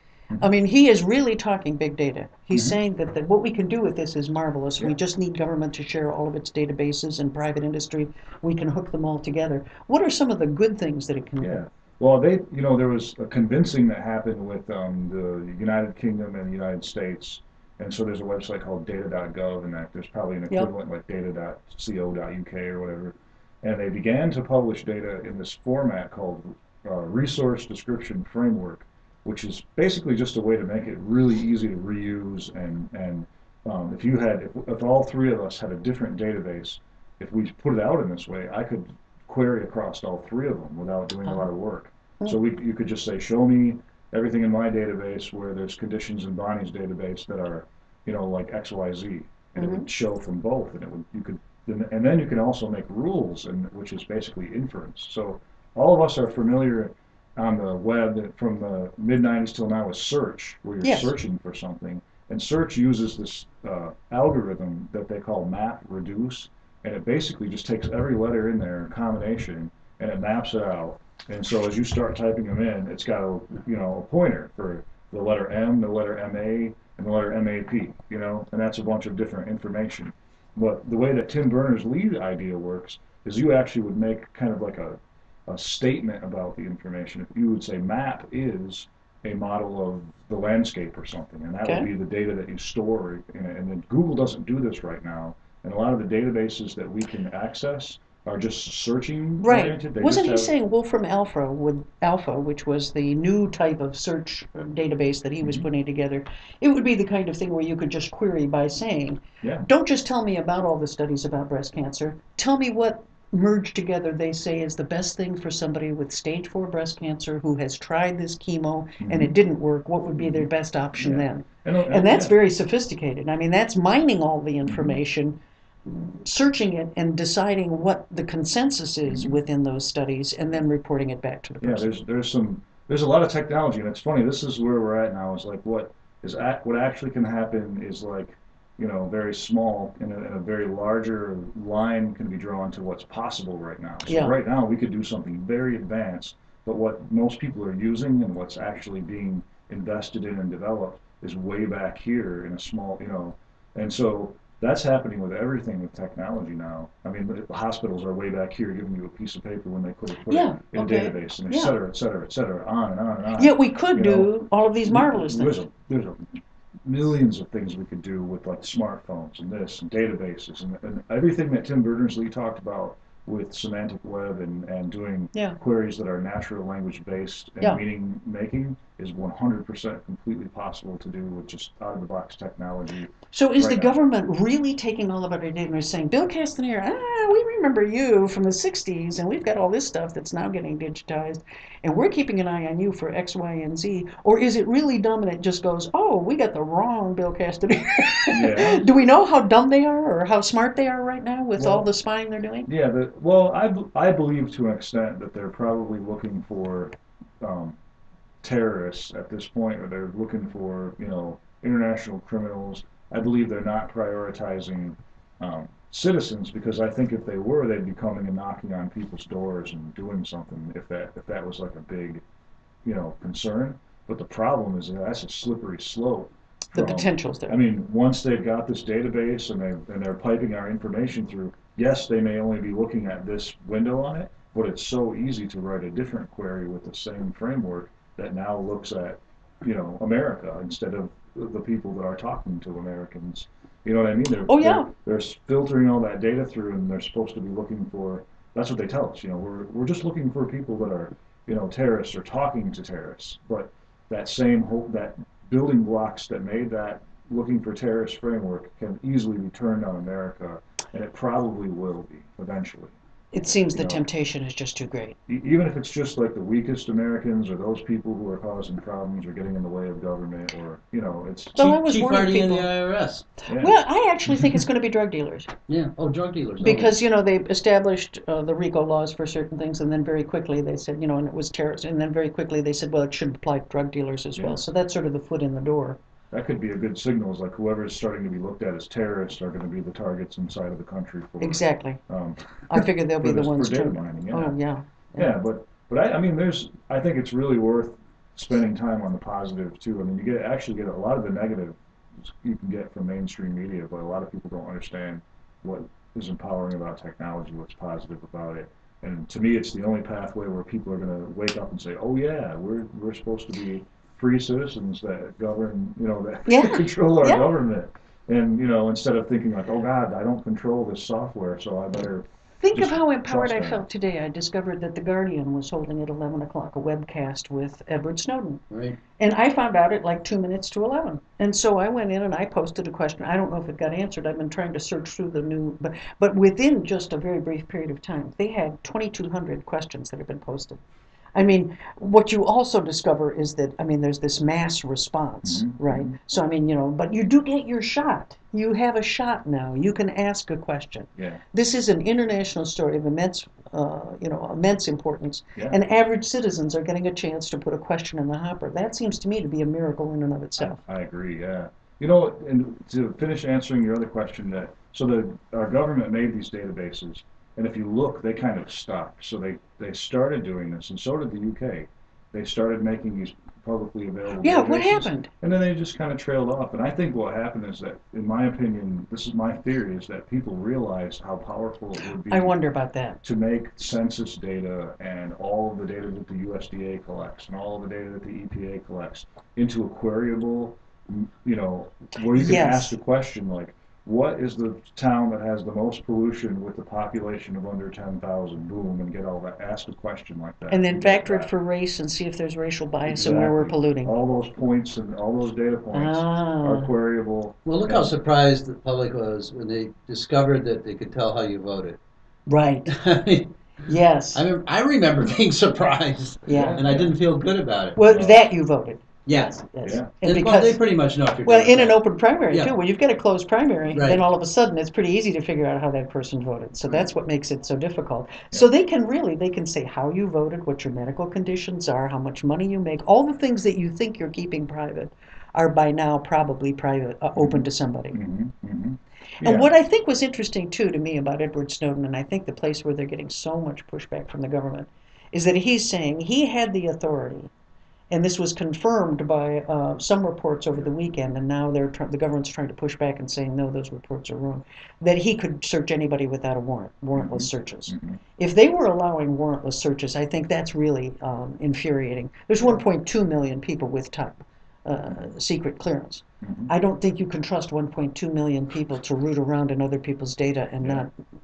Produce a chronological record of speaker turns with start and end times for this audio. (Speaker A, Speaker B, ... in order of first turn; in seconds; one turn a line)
Speaker A: 0.4-11.6
Speaker B: 2.5-2.8
Speaker B: 11.4-100.5
Speaker A: 49.6-49.9
Speaker A: 60.8-61.1
Speaker A: 99.4-131.9
Speaker B: 119.0-119.3
Speaker B: 120.2-122.4
Speaker B: 124.7-125.0
Speaker B: 129.1-129.3
Speaker B: 131.6-164.3
Speaker A: 144.1-144.3
Speaker A: 160.3-161.7
Speaker A: 163.4-165.7
Speaker B: 164.8-183.9
Speaker A: 183.3-202.7
Speaker B: 198.3-198.9
Speaker B: 201.6-201.9
Speaker B: 202.7-207.8
Speaker B: 208.4-222.2
Speaker B: 222.8-262.9
Speaker A: 226.7-227.6
Speaker A: 244.5-244.9
Speaker A: 263.3-265.2
Speaker B: 263.7-264.1
Speaker B: 265.3-271.6
Speaker C: 271.5-273.3
Speaker A: 271.6-272.7
Speaker B: 273.5-274.6
Speaker A: 273.6-275.5
Speaker C: 275.7-277.0
Speaker A: 276.6-286.0
Speaker B: 284.4-284.6
Speaker B: 286.3-294.5
Speaker A: 291.4-292.0
Speaker A: 292.7-295.3
Speaker B: 295.1-323.8
Speaker A: 316.5-317.5
Speaker A: 322.6-328.6
Speaker C: 328.7-329.0
Speaker A: 329.2-340.8
Speaker A: 341.4-360.8
Speaker B: 345.4-346.2
Speaker B: 360.6-382.6
Speaker A: 374.4-375.3
Speaker A: 382.3-383.2
Speaker B: 383.2-401.5
Speaker A: 392.3-392.9
Speaker A: 400.7-404.1
Speaker B: 403.1-408.2
Speaker A: 405.9-406.9
Speaker C: 407.6-412.0
Speaker A: 412.5-412.9
Speaker C: 412.9-413.5
Speaker A: 413.9-414.4
Speaker C: 414.3-418.1
Speaker A: 416.5-416.8
Speaker B: 416.5-417.1
Speaker A: 417.9-420.8
Speaker B: 418.1-418.4
Speaker C: 419.3-419.6
Speaker B: 419.8-420.1
Speaker C: 420.1-422.7
Speaker A: 421.4-438.2
Speaker C: 423.9-424.2
Speaker B: 437.4-439.7
Speaker A: 439.4-447.5
Speaker A: 448.1-471.1
Speaker B: 457.1-458.2
Speaker B: 466.4-466.7